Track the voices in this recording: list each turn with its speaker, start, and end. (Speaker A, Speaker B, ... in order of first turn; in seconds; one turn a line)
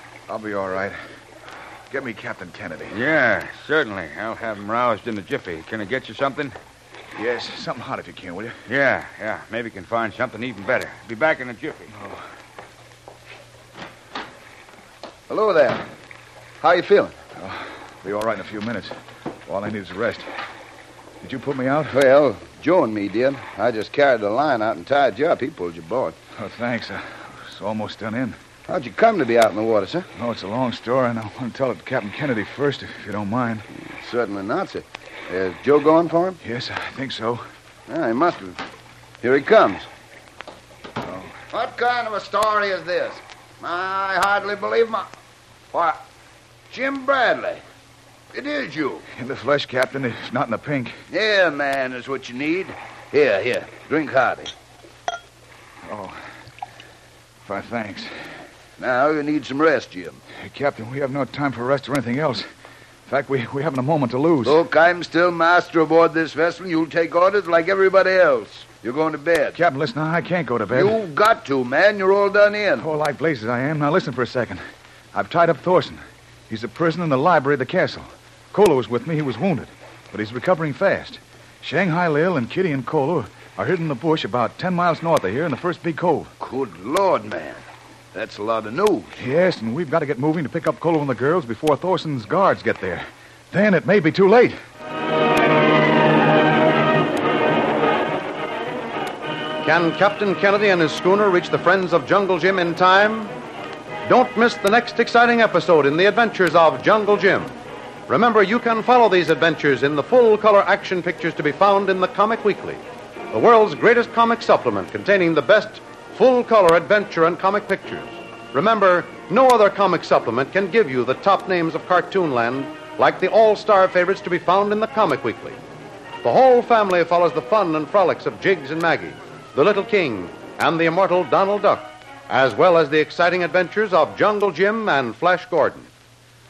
Speaker A: 0.3-1.0
Speaker A: 1.9-3.0
Speaker B: 2.9-6.5
Speaker A: 7.1-8.6
Speaker B: 8.7-11.9
Speaker A: 11.9-12.2
Speaker C: 15.3-15.8
Speaker C: 16.6-17.1
Speaker A: 17.4-18.9
Speaker A: 19.5-20.2
Speaker A: 21.2-21.9
Speaker C: 21.9-26.1
Speaker A: 26.4-28.4
Speaker C: 28.7-30.1
Speaker A: 30.2-33.6
Speaker C: 33.8-36.4
Speaker A: 36.4-37.4
Speaker C: 37.9-38.6
Speaker C: 39.2-39.9
Speaker A: 41.0-41.4
Speaker C: 41.5-45.0
Speaker C: 45.7-46.0
Speaker C: 46.7-47.6
Speaker C: 48.3-49.0
Speaker A: 49.1-51.0
Speaker C: 51.1-54.5
Speaker A: 55.9-56.2
Speaker A: 57.4-58.1
Speaker C: 58.8-60.2
Speaker A: 60.4-62.5
Speaker A: 63.0-64.6
Speaker C: 64.4-69.6
Speaker A: 69.5-71.0
Speaker C: 70.7-72.9
Speaker A: 72.8-74.6
Speaker A: 75.1-86.3
Speaker C: 86.4-89.3
Speaker A: 89.2-94.5
Speaker D: 99.6-103.3
Speaker D: 104.0-107.6
Speaker D: 108.1-125.6
Speaker D: 126.2-135.9